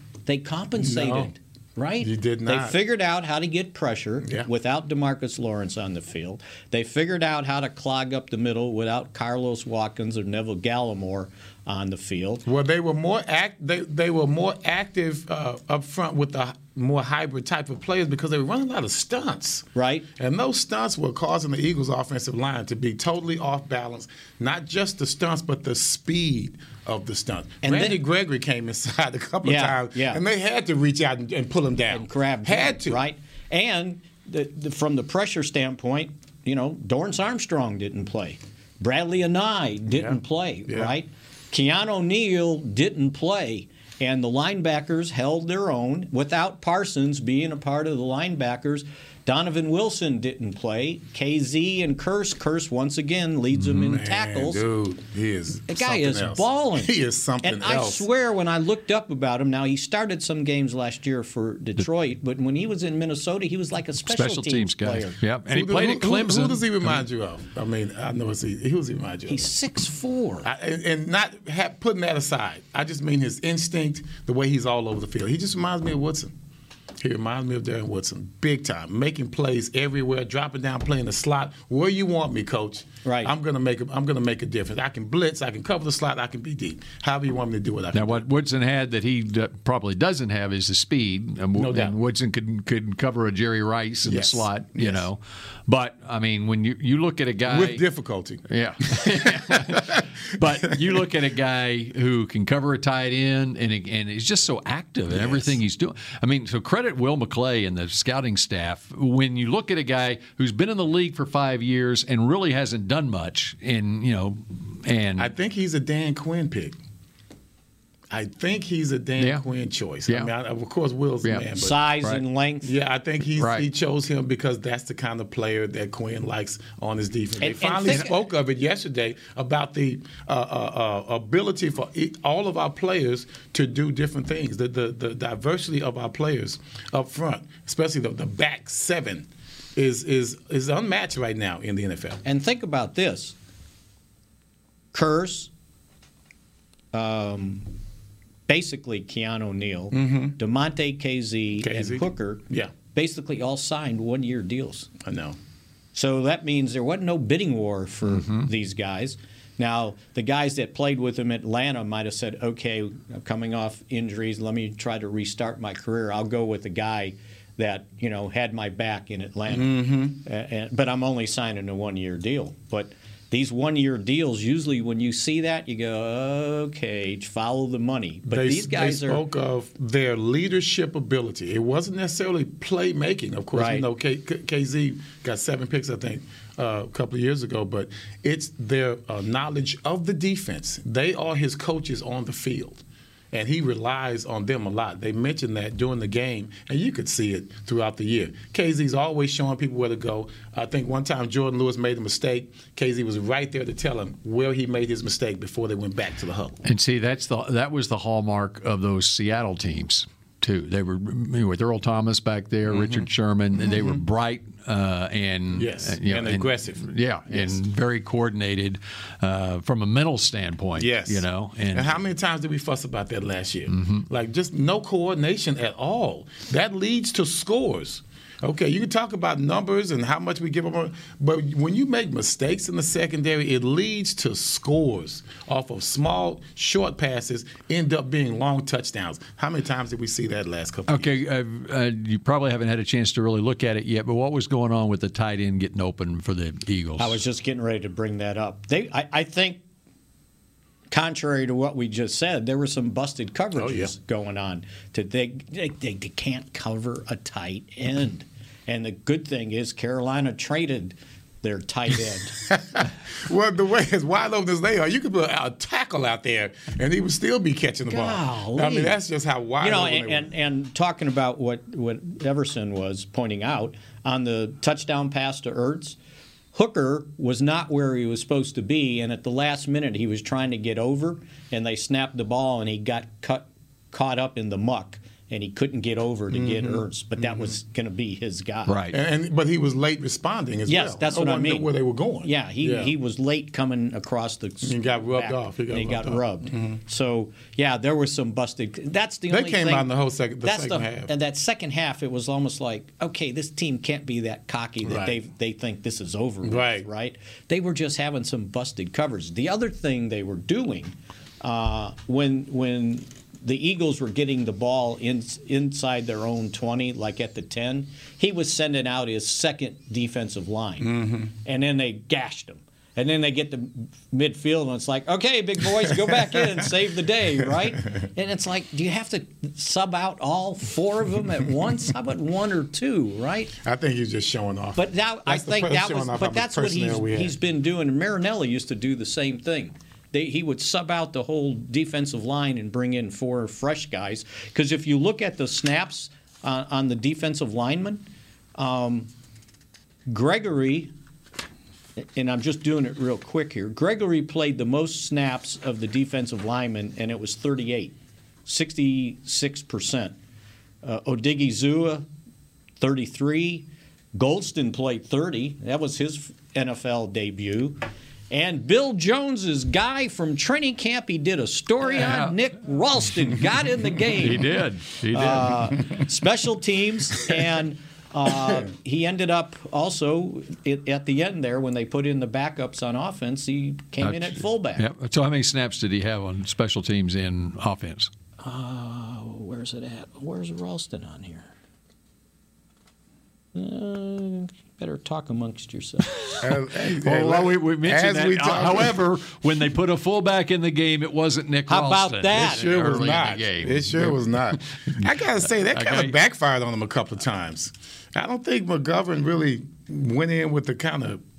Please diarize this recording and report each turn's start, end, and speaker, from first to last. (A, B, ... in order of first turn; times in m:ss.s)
0:00.3-0:12.4 A
0:00.8-0:01.3 B
0:02.0-0:02.8 B
0:12.5-0:33.0 B
0:19.8-0:20.1 A
0:27.6-0:28.0 A
0:29.4-0:30.2 A
0:31.9-0:54.6 A
0:39.9-0:40.9 B
0:53.6-0:58.1 B
0:55.7-1:05.2 A
1:04.1-1:07.0 C
1:05.5-1:09.5 B
1:09.3-1:10.5 A
1:10.4-1:16.3 B
1:17.0-1:28.2 B
1:23.0-1:23.3 A
1:27.9-1:37.8 C
1:31.6-1:32.0 B
1:34.0-1:35.1 B
1:37.4-1:40.9 B
1:38.5-1:55.3 C
1:45.1-1:45.6 B
1:55.2-1:56.8 B
1:58.1-2:01.9 B
1:59.2-1:59.4 C
2:01.6-2:02.7 A
2:02.6-2:22.2 B
2:03.4-2:03.7 C
2:07.4-2:08.1 A
2:22.2-2:23.4 A
2:24.9-2:25.5 A
2:26.9-2:27.7 A
2:28.5-2:34.9 A
2:29.9-2:30.4 B
2:31.6-2:32.7 B
2:35.0-2:35.4 B
2:36.0-2:59.2 A
2:38.1-2:38.4 C
2:49.5-2:50.2 B
2:58.3-3:26.6 B
3:03.5-3:03.9 A
3:26.6-3:42.0 C
3:32.7-3:34.0 B
3:35.5-3:37.6 B
3:40.8-4:01.1 B
3:43.7-3:44.0 C
4:00.9-4:07.2 C
4:07.0-4:09.6 A
4:10.9-4:22.4 A
4:13.6-4:13.9 B
4:22.4-4:30.3 B
4:27.9-4:29.0 A
4:29.6-4:36.0 A
4:36.5-4:48.8 A
4:46.3-4:47.5 B
4:48.7-4:49.0 C
4:48.9-4:52.9 B
4:50.7-4:59.9 A
4:54.6-4:56.8 B
4:59.3-5:01.1 B
5:00.4-5:33.5 A
5:04.9-5:05.2 B
5:06.4-5:06.9 B
5:20.8-5:21.3 B
5:33.6-5:37.4 B
5:34.8-5:49.1 A
5:50.1-5:50.9 A
5:52.0-6:00.2 A
6:00.8-6:02.1 A
6:02.8-6:14.5 A
6:11.9-6:12.4 C
6:14.2-6:15.8 C
6:15.1-6:24.8 A
6:24.0-6:28.1 C
6:28.4-6:31.5 A
6:33.6-6:36.4 A
6:36.4-6:39.0 B
6:37.0-6:46.2 C
6:41.7-6:42.7 A
6:42.3-6:51.2 B